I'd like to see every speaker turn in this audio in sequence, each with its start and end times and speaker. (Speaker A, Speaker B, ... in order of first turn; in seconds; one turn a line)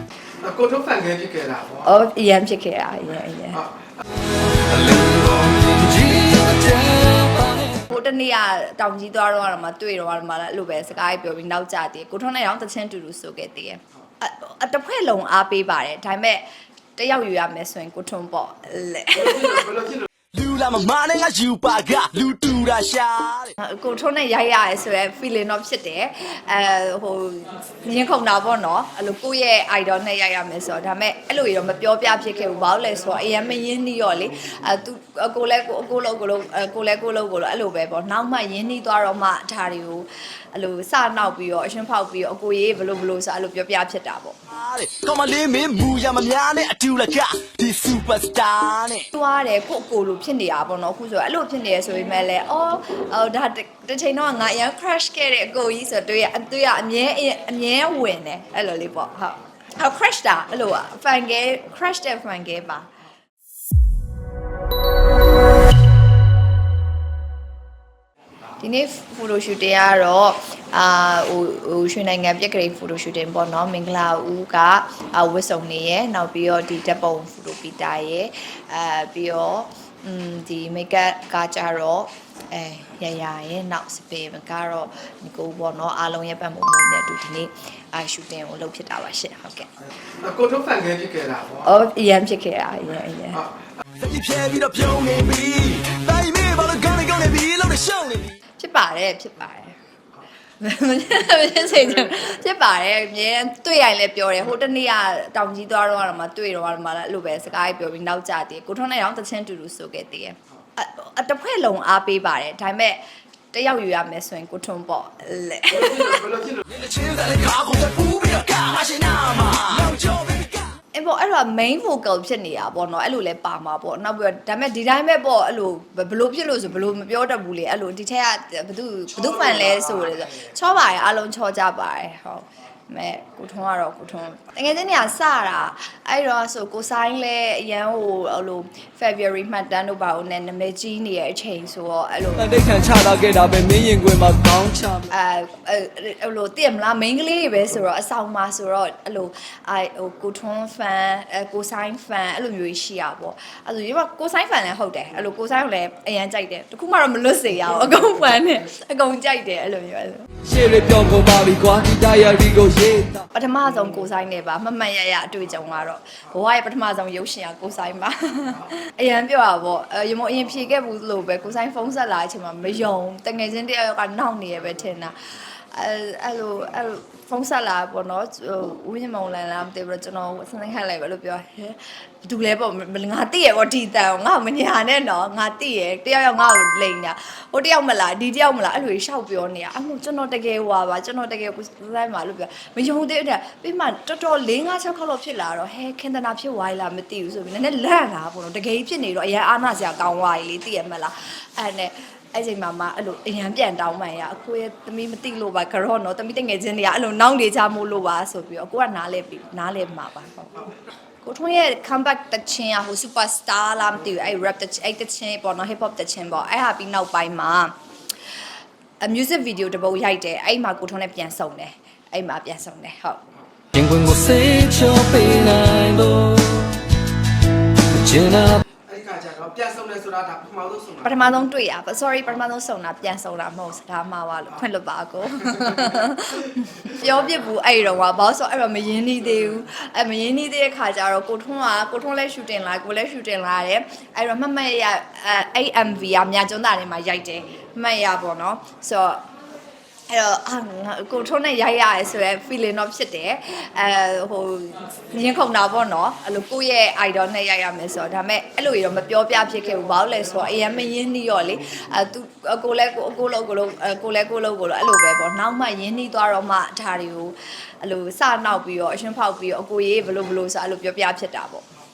Speaker A: 0.4-1.9
Speaker B: 1.8-3.6
Speaker C: 4.7-7.8
Speaker B: 7.9-16.4
Speaker B: 17.0-19.7
Speaker A: 19.3-20.0
Speaker D: 20.3-23.6
Speaker B: 23.6-44.4
Speaker D: 44.5-49.1
Speaker B: 49.1-62.9
Speaker B: 68.6-89.7
Speaker A: 90.1-91.7
Speaker B: 91.6-93.4
Speaker D: 94.0-98.3
Speaker B: 98.6-99.8
Speaker B: 100.6-113.0
Speaker B: 113.5-116.3
Speaker A: 115.7-116.6
Speaker D: 116.7-120.7
Speaker B: 120.9-142.5
Speaker C: 142.4-145.1
Speaker B: 145.1-160.3
Speaker C: 160.4-163.2
Speaker B: 163.3-210.6
Speaker B: 211.2-217.7
Speaker B: 219.0-223.3
Speaker C: 223.7-226.8
Speaker C: 227.9-228.6
Speaker A: 228.8-231.1
Speaker B: 231.0-249.2
Speaker B: 250.1-271.6